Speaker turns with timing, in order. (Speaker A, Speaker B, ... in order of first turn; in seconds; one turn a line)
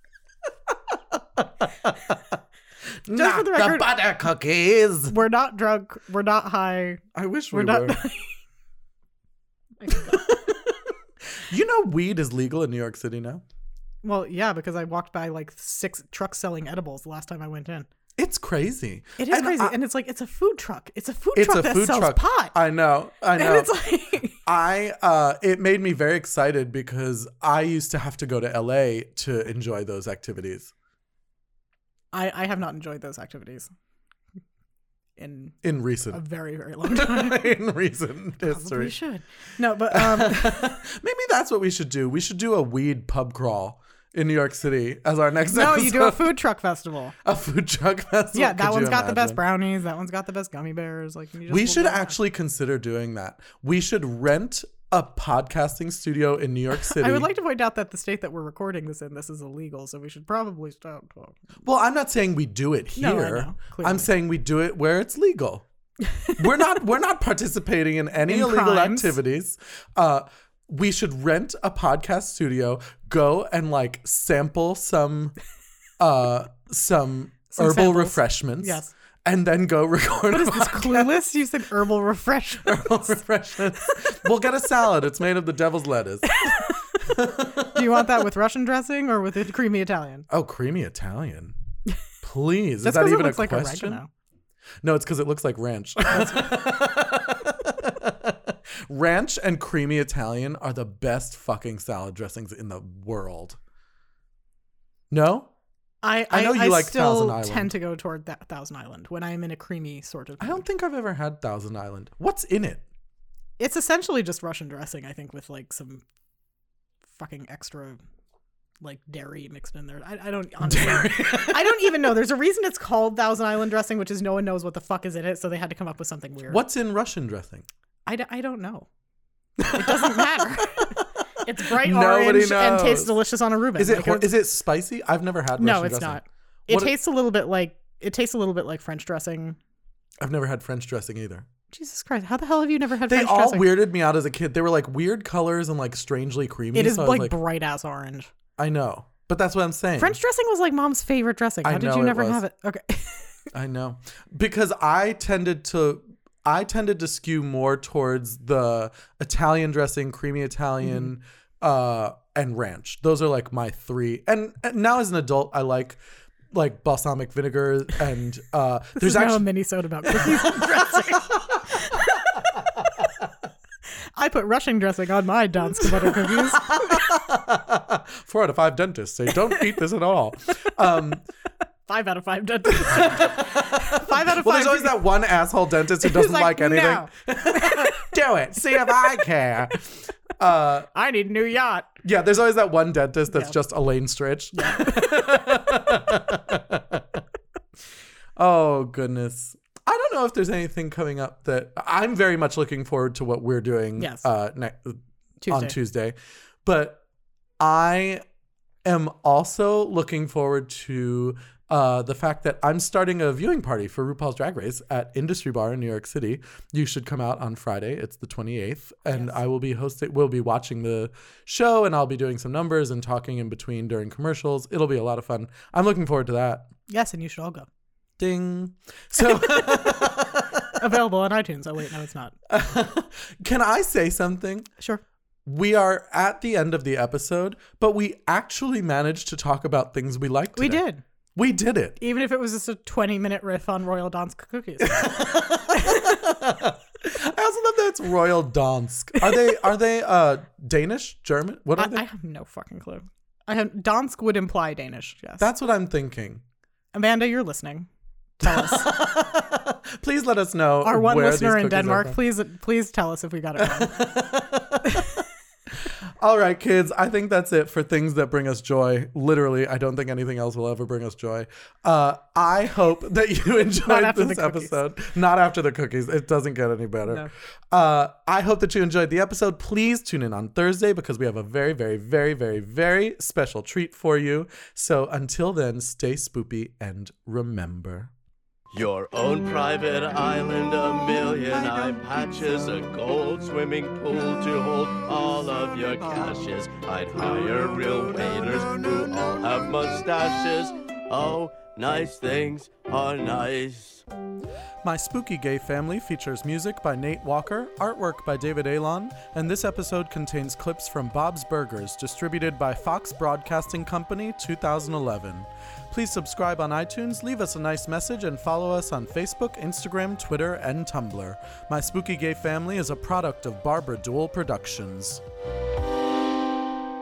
Speaker A: 1.1-2.4
Speaker A: 3.1-5.2
Speaker B: 3.1-3.9
Speaker B: 5.1-7.0
Speaker A: 7.2-8.0
Speaker B: 7.5-8.3
Speaker B: 9.8-10.3
Speaker A: 9.9-10.6
Speaker A: 11.4-13.4
Speaker B: 14.0-17.9
Speaker A: 18.2-19.8
Speaker B: 19.2-22.6
Speaker A: 21.3-23.7
Speaker B: 23.4-24.4
Speaker A: 24.5-30.7
Speaker B: 32.1-33.7
Speaker B: 35.2-35.6
Speaker A: 35.6-36.2
Speaker B: 36.1-37.5
Speaker A: 36.8-39.0
Speaker B: 38.5-40.8
Speaker A: 39.9-46.4
Speaker B: 45.5-47.1
Speaker A: 47.2-49.4
Speaker B: 48.3-52.2
Speaker A: 51.5-57.3
Speaker B: 56.9-61.4
Speaker A: 61.6-65.7
Speaker B: 63.0-64.1
Speaker A: 66.3-75.4
Speaker B: 68.3-69.2
Speaker A: 76.0-81.2
Speaker B: 77.5-78.9
Speaker B: 80.3-83.1
Speaker A: 82.7-88.2
Speaker B: 86.3-86.8
Speaker B: 87.7-90.3
Speaker A: 90.3-91.5
Speaker A: 92.2-94.0
Speaker B: 92.8-94.1
Speaker A: 94.8-103.6
Speaker A: 105.1-105.5
Speaker B: 106.0-110.7
Speaker A: 106.3-107.7
Speaker A: 110.4-112.8
Speaker B: 113.6-116.0
Speaker B: 117.2-118.0
Speaker B: 118.8-126.6
Speaker A: 120.6-121.9
Speaker A: 126.5-127.7
Speaker B: 128.1-128.9
Speaker A: 129.6-130.9
Speaker B: 129.7-134.3
Speaker A: 131.7-133.2
Speaker A: 133.8-136.9
Speaker B: 135.6-139.6
Speaker A: 140.2-141.5
Speaker B: 141.7-143.7
Speaker A: 143.1-147.4
Speaker B: 146.7-148.3
Speaker A: 148.6-150.2
Speaker B: 150.0-153.3
Speaker A: 151.6-152.4
Speaker A: 153.5-166.0
Speaker A: 166.5-169.4
Speaker B: 169.0-172.2
Speaker A: 170.1-171.6
Speaker B: 174.2-177.0
Speaker A: 175.7-181.2
Speaker B: 181.9-185.0
Speaker A: 182.7-190.9
Speaker B: 186.0-188.1
Speaker B: 190.9-191.9
Speaker A: 192.0-197.2
Speaker B: 194.5-195.3
Speaker A: 198.4-207.0
Speaker B: 204.0-204.2
Speaker B: 205.4-205.8
Speaker A: 207.6-208.2
Speaker A: 208.8-226.7
Speaker B: 226.9-227.7
Speaker A: 228.2-230.8
Speaker B: 230.8-232.3
Speaker A: 232.5-234.7
Speaker A: 235.4-240.8
Speaker B: 240.6-241.0
Speaker A: 241.3-242.0
Speaker B: 242.0-246.2
Speaker A: 244.8-252.0
Speaker B: 251.8-255.5
Speaker A: 255.4-256.4
Speaker B: 256.9-257.9
Speaker B: 258.4-259.0
Speaker A: 258.4-262.2
Speaker B: 260.8-264.0
Speaker A: 263.6-265.1
Speaker A: 265.8-288.1
Speaker B: 273.9-274.7
Speaker C: 288.7-304.1
Speaker A: 304.8-325.2